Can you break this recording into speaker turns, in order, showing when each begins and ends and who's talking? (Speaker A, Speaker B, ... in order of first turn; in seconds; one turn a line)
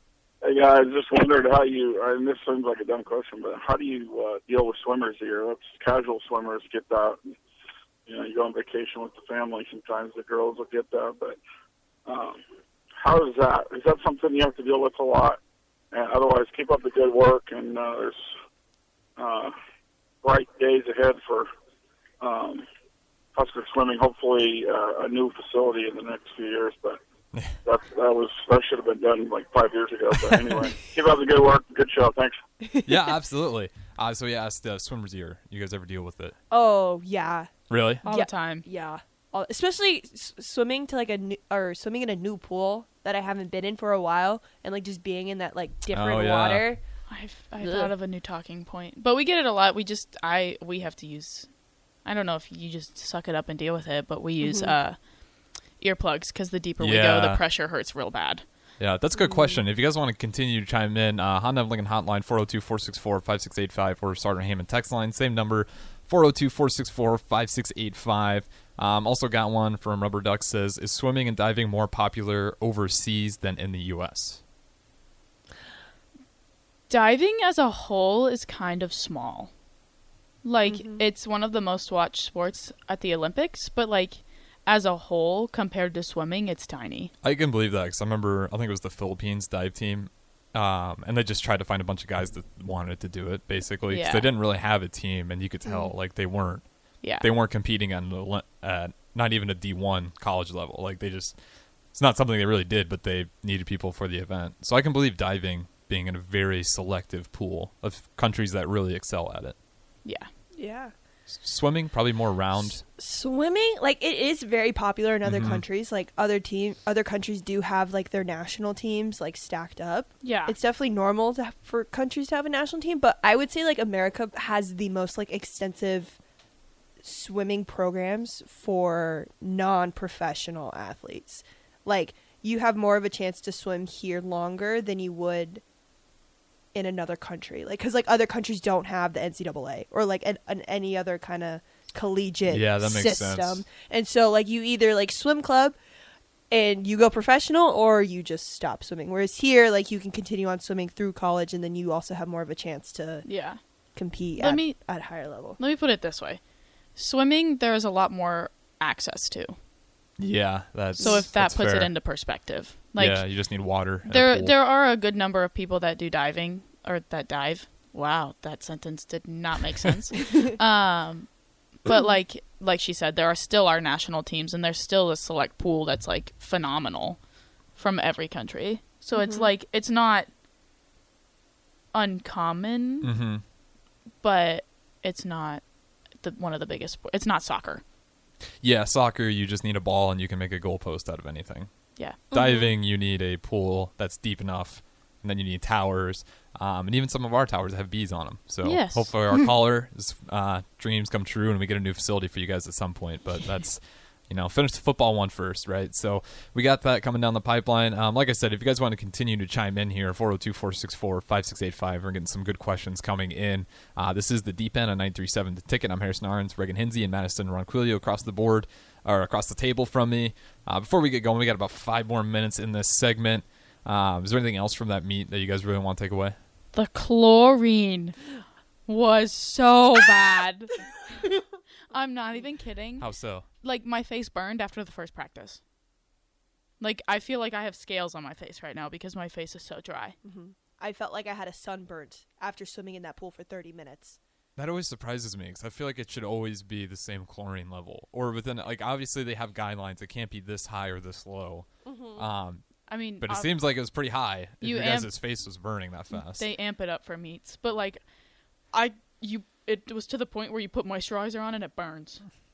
Speaker A: 0.4-7.4
Speaker A: 8.1-11.4
Speaker A: 12.1-12.4
Speaker A: 13.0-15.4
Speaker A: 15.9-18.2
Speaker A: 19.2-19.5
Speaker A: 20.2-21.5
Speaker A: 22.2-22.6
Speaker A: 23.3-27.0
Speaker A: 27.6-32.4
Speaker B: 30.2-30.5
Speaker C: 32.6-32.9
Speaker B: 32.8-36.4
Speaker C: 36.5-37.5
Speaker B: 37.7-38.0
Speaker C: 38.0-46.8
Speaker D: 38.0-38.6
Speaker B: 45.9-46.7
Speaker D: 47.1-51.5
Speaker C: 47.6-47.9
Speaker D: 52.0-55.0
Speaker C: 54.4-54.7
Speaker D: 55.8-58.4
Speaker B: 56.8-57.4
Speaker B: 58.8-74.4
Speaker C: 59.2-59.5
Speaker D: 76.9-79.5
Speaker D: 80.4-87.1
Speaker C: 80.7-81.0
Speaker B: 87.2-101.3
Speaker D: 93.9-94.3
Speaker C: 95.7-95.9
Speaker B: 101.9-109.5
Speaker C: 110.6-110.9
Speaker B: 111.3-112.8
Speaker C: 112.9-126.2
Speaker B: 115.2-115.6
Speaker D: 120.2-120.5
Speaker C: 127.0-135.6
Speaker C: 136.7-145.8
Speaker B: 142.5-143.6
Speaker C: 146.5-153.2
Speaker D: 153.2-153.6
Speaker C: 153.9-155.6
Speaker D: 154.4-154.8
Speaker D: 155.6-156.4
Speaker D: 156.9-159.6
Speaker B: 160.2-161.9
Speaker C: 161.0-161.2
Speaker D: 161.0-163.2
Speaker B: 163.0-164.5
Speaker D: 164.1-171.3
Speaker D: 171.8-177.2
Speaker D: 177.7-180.3
Speaker C: 179.1-179.5
Speaker D: 181.9-183.1
Speaker B: 183.0-183.4
Speaker D: 184.2-185.6
Speaker D: 186.2-187.8
Speaker B: 188.6-191.7
Speaker C: 192.3-192.7
Speaker B: 192.3-226.3
Speaker D: 198.6-199.2
Speaker D: 226.7-228.2
Speaker D: 228.9-230.8
Speaker D: 231.9-233.1
Speaker B: 233.0-233.4
Speaker D: 233.6-235.6
Speaker D: 236.8-240.2
Speaker C: 240.2-244.2
Speaker B: 244.6-256.5
Speaker C: 251.8-252.2
Speaker D: 252.9-253.5
Speaker D: 254.6-255.1
Speaker D: 256.3-258.0
Speaker D: 258.7-262.2